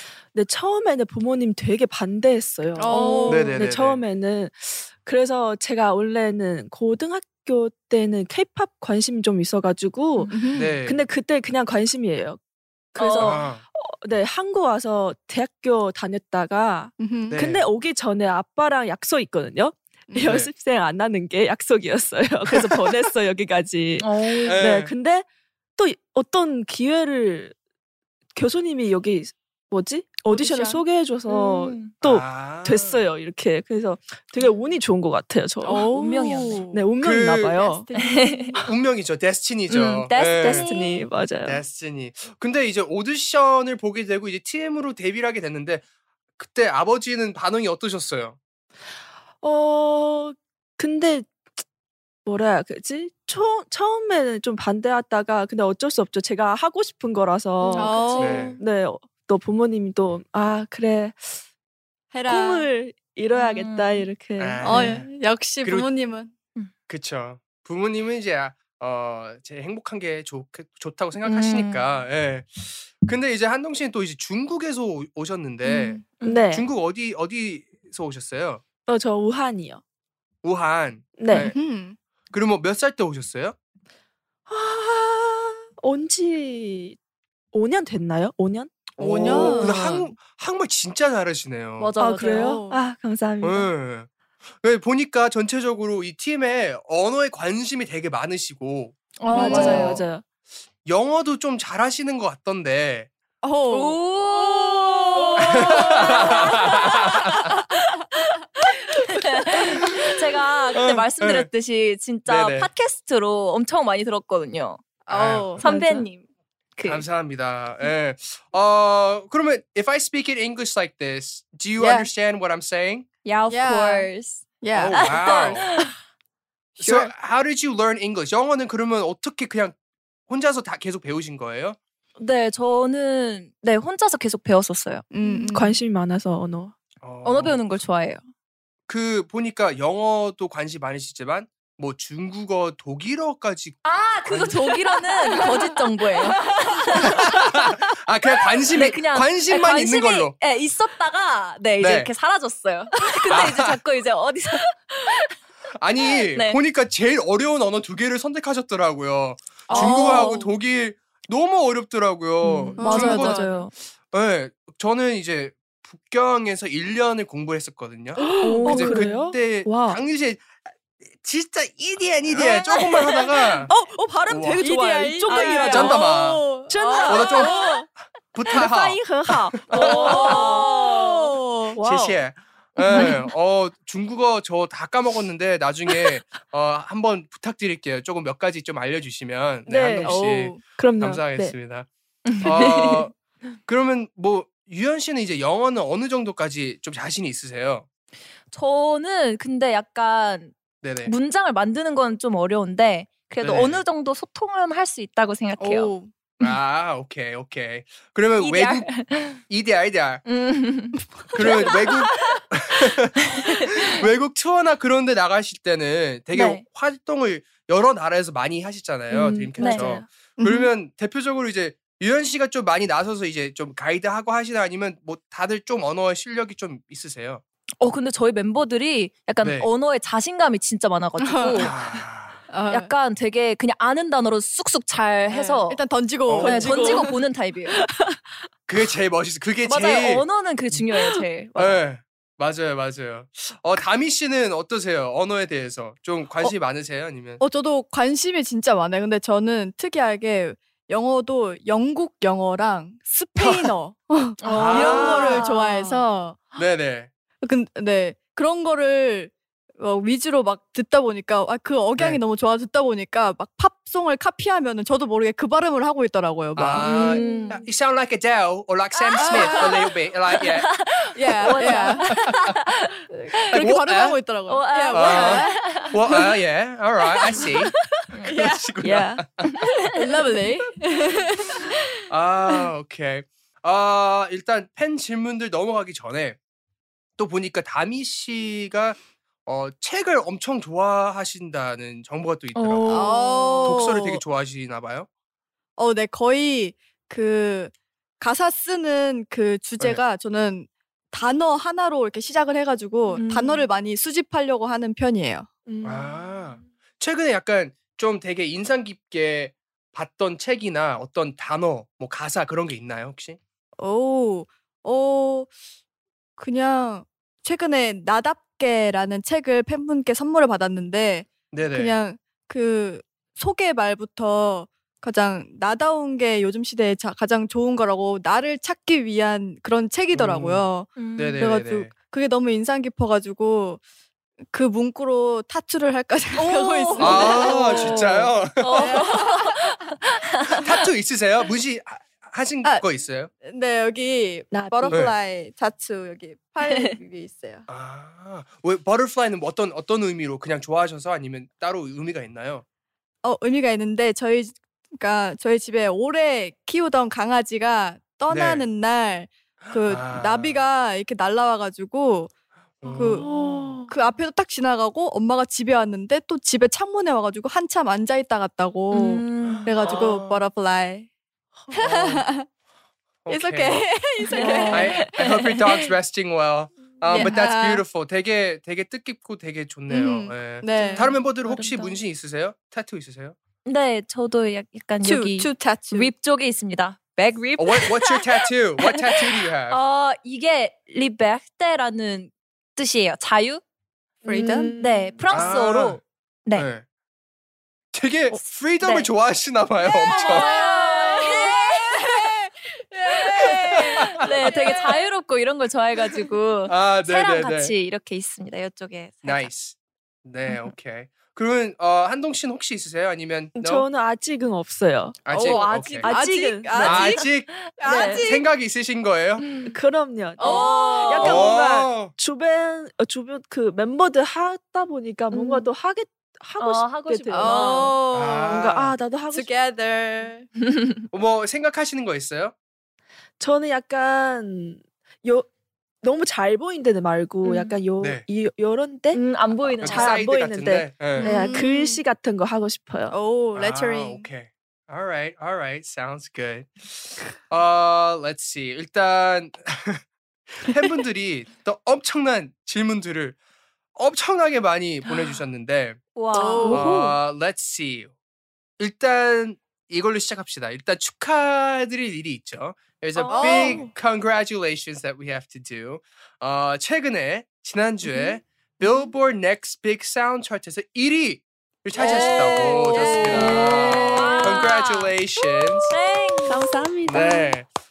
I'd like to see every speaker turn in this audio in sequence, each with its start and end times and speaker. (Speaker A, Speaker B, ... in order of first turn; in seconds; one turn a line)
Speaker A: 0.3-12.4
Speaker B: 2.8-3.6
Speaker C: 2.9-3.1
Speaker D: 3.3-4.0
Speaker C: 10.2-10.5
Speaker B: 10.3-10.7
Speaker D: 10.5-11.0
Speaker A: 12.9-27.6
Speaker C: 13.0-13.4
Speaker D: 13.2-13.6
Speaker B: 17.0-17.4
Speaker D: 17.3-17.6
Speaker D: 20.2-20.5
Speaker C: 24.0-24.6
Speaker D: 24.5-24.9
Speaker A: 28.4-35.9
Speaker B: 30.3-30.8
Speaker C: 31.3-31.9
Speaker D: 32.0-33.0
Speaker B: 35.6-36.8
Speaker C: 35.9-36.6
Speaker A: 36.7-37.9
Speaker D: 37.0-37.6
Speaker B: 37.6-38.6
Speaker C: 37.9-38.6
Speaker D: 38.6-40.7
Speaker C: 39.7-41.0
Speaker A: 40.5-41.6
Speaker D: 41.4-45.9
Speaker D: 46.4-48.4
Speaker A: 49.4-51.4
Speaker A: 52.2-61.4
Speaker C: 57.6-58.6
Speaker B: 57.8-58.5
Speaker D: 58.1-58.6
Speaker B: 62.1-62.7
Speaker A: 62.3-64.9
Speaker C: 63.3-64.1
Speaker D: 64.4-65.1
Speaker B: 64.6-66.3
Speaker D: 65.6-65.9
Speaker D: 66.9-78.6
Speaker C: 71.2-71.9
Speaker B: 75.6-76.0
Speaker C: 76.2-76.4
Speaker A: 76.2-76.7
Speaker A: 78.9-79.8
Speaker D: 80.4-81.6
Speaker A: 81.2-81.5
Speaker B: 81.3-82.0
Speaker D: 82.3-83.6
Speaker A: 84.5-87.0
Speaker A: 87.5-90.0
Speaker D: 89.0-91.9
Speaker B: 89.0-90.0
Speaker C: 91.8-92.6
Speaker A: 92.0-93.7
Speaker B: 92.3-92.8
Speaker D: 93.4-94.1
Speaker D: 94.6-100.0
Speaker C: 99.2-100.0
Speaker B: 99.3-99.9
Speaker A: 99.3-100.2
Speaker D: 100.8-103.1
Speaker B: 103.4-104.0
Speaker C: 103.7-107.5
Speaker A: 105.1-105.9
Speaker D: 105.4-107.5
Speaker C: 108.7-114.9
Speaker D: 110.8-111.5
Speaker D: 112.3-112.7
Speaker B: 115.1-115.9
Speaker D: 115.1-115.6
Speaker C: 115.6-116.2
Speaker A: 115.6-116.1
Speaker C: 116.8-117.1
Speaker D: 116.9-123.1
Speaker B: 121.8-122.1
Speaker C: 123.2-124.4
Speaker B: 123.5-124.1
Speaker B: 124.6-125.5
Speaker D: 124.7-125.8
Speaker C: 125.0-125.9
Speaker D: 126.8-129.8
Speaker B: 126.8-127.1
Speaker D: 130.3-131.8
Speaker C: 132.2-135.6
Speaker B: 135.1-135.8
Speaker A: 135.2-136.8
Speaker D: 137.0-137.6
Speaker C: 137.2-138.2
Speaker D: 138.9-144.8
Speaker C: 143.8-147.2
Speaker D: 147.0-150.3
Speaker C: 148.7-155.3
Speaker D: 151.8-152.1
Speaker D: 153.3-153.8
Speaker D: 155.7-163.4
Speaker C: 156.3-156.6
Speaker C: 159.7-160.0
Speaker A: 159.7-160.3
Speaker B: 159.7-160.5
Speaker C: 162.4-163.7
Speaker A: 162.5-163.5
Speaker B: 162.8-163.6
Speaker D: 164.0-173.7
Speaker A: 168.2-170.0
Speaker C: 168.4-169.3
Speaker A: 172.3-172.8
Speaker C: 172.7-173.0
Speaker A: 173.7-176.1
Speaker D: 174.3-174.6
Speaker B: 174.6-177.7
Speaker C: 175.3-175.8
Speaker D: 175.6-176.5
Speaker A: 176.7-177.9
Speaker D: 177.1-177.6
Speaker D: 178.3-180.5
Speaker A: 178.5-181.1
Speaker C: 179.7-181.1
Speaker B: 179.7-181.8
Speaker A: 181.8-182.2
Speaker D: 181.8-191.9
Speaker C: 182.9-183.2
Speaker A: 189.7-191.6
Speaker B: 190.0-190.6
Speaker C: 192.2-193.1
Speaker D: 192.4-193.1
Speaker D: 193.7-197.9
Speaker C: 198.5-205.9
Speaker D: 200.8-201.1
Speaker D: 203.4-203.8
Speaker B: 205.6-206.1
Speaker D: 206.4-210.2
Speaker C: 208.4-209.4
Speaker C: 210.3-212.3
Speaker B: 211.3-211.9
Speaker D: 211.3-213.2
Speaker C: 213.3-213.8
Speaker D: 213.7-227.4
Speaker C: 216.3-216.6
Speaker C: 219.1-219.9
Speaker A: 219.3-220.1
Speaker B: 220.4-220.7
Speaker C: 227.8-231.7
Speaker D: 229.4-229.7
Speaker B: 231.3-231.8
Speaker D: 231.6-232.4
Speaker B: 232.5-232.9
Speaker C: 232.7-235.8
Speaker B: 235.3-237.2
Speaker D: 236.3-236.7
Speaker C: 236.4-237.8
Speaker A: 236.5-237.1
Speaker D: 238.7-240.8
Speaker C: 239.6-241.8
Speaker D: 241.6-247.4
Speaker B: 247.4-256.4
Speaker D: 253.4-253.7
Speaker C: 254.4-256.0
Speaker D: 254.5-255.4
Speaker D: 256.6-257.1
Speaker B: 257.4-267.5
Speaker D: 266.6-270.8
Speaker C: 266.8-267.6
Speaker C: 269.0-269.8
Speaker B: 269.2-269.9
Speaker C: 270.6-273.6
Speaker B: 271.2-272.1
Speaker D: 271.5-272.5
Speaker B: 273.1-275.9
Speaker D: 273.5-274.2
Speaker C: 274.5-276.0
Speaker D: 274.9-277.7
Speaker B: 277.3-277.6
Speaker B: 278.2-278.7
Speaker D: 278.2-279.5
Speaker A: 278.8-279.2
Speaker B: 279.9-281.7
Speaker D: 282.1-286.4
Speaker D: 287.2-295.1
Speaker C: 292.5-293.8
Speaker B: 292.9-294.2
Speaker B: 295.8-305.5
Speaker C: 303.1-303.7
Speaker A: 305.7-306.6
Speaker D: 305.8-313.4
Speaker B: 313.8-315.5
Speaker B: 316.4-333.8
Speaker D: 321.5-321.9
Speaker D: 330.1-331.9
Speaker C: 331.0-331.5
Speaker B: 334.5-339.6
Speaker C: 336.4-340.7
Speaker D: 337.0-338.9
Speaker D: 340.6-343.3
Speaker B: 343.4-347.7
Speaker A: 344.5-345.0
Speaker D: 344.9-345.1
Speaker D: 347.7-352.6
Speaker B: 353.2-362.3
Speaker D: 358.3-358.7
Speaker D: 359.8-360.6
Speaker D: 362.8-363.8
Speaker A: 362.9-363.9
Speaker B: 362.9-363.3
Speaker B: 363.9-371.1
Speaker C: 368.9-369.8
Speaker D: 369.5-370.4
Speaker B: 371.7-372.5
Speaker D: 371.8-372.3
Speaker D: 373.2-374.0
Speaker B: 373.3-375.0
Speaker C: 374.3-375.9
Speaker A: 374.4-374.9
Speaker D: 374.7-383.4
Speaker B: 377.1-377.8
Speaker B: 379.9-381.1
Speaker C: 380.6-382.0
Speaker C: 383.6-389.0
Speaker B: 385.0-386.1
Speaker D: 387.6-389.8
Speaker C: 389.7-393.6
Speaker A: 394.2-395.6
Speaker B: 394.3-394.8
Speaker C: 394.8-396.7
Speaker D: 395.3-396.0
Speaker D: 396.5-396.9
Speaker D: 397.9-400.5
Speaker C: 398.8-399.1
Speaker C: 399.8-402.2
Speaker B: 400.1-404.9
Speaker C: 403.2-409.5
Speaker D: 406.7-407.8
Speaker D: 409.2-413.9
Speaker C: 410.5-410.7
Speaker A: 413.6-417.2
Speaker D: 415.3-416.1
Speaker B: 415.3-418.5
Speaker C: 415.4-418.2
Speaker D: 416.8-417.5
Speaker A: 417.9-418.2
Speaker D: 418.2-419.4
Speaker C: 419.4-419.8
Speaker A: 419.6-429.5
Speaker B: 420.4-421.4
Speaker C: 420.4-421.5
Speaker D: 421.2-422.1
Speaker C: 425.3-425.7
Speaker C: 426.6-427.9
Speaker B: 427.3-428.6
Speaker D: 428.1-428.9
Speaker B: 429.3-430.5
Speaker D: 431.1-432.5
Speaker A: 433.4-435.5
Speaker A: 436.0-443.1
Speaker C: 437.4-437.8
Speaker D: 438.0-438.2
Speaker C: 439.1-440.2
Speaker D: 439.8-441.3
Speaker C: 441.2-441.5
Speaker B: 441.2-442.0
Speaker B: 443.1-444.3
Speaker D: 443.6-453.4
Speaker D: 453.9-456.0
Speaker C: 456.1-456.9
Speaker B: 456.3-456.9
Speaker A: 456.6-457.2
Speaker D: 456.7-458.1
Speaker D: 458.8-475.9
Speaker C: 463.3-463.5
Speaker A: 463.3-463.8
Speaker B: 463.3-463.9
Speaker B: 471.9-474.6
Speaker C: 472.0-475.1
Speaker A: 473.3-473.6
Speaker C: 475.9-476.9
Speaker B: 476.1-476.6
Speaker A: 476.5-477.5
Speaker D: 477.1-477.7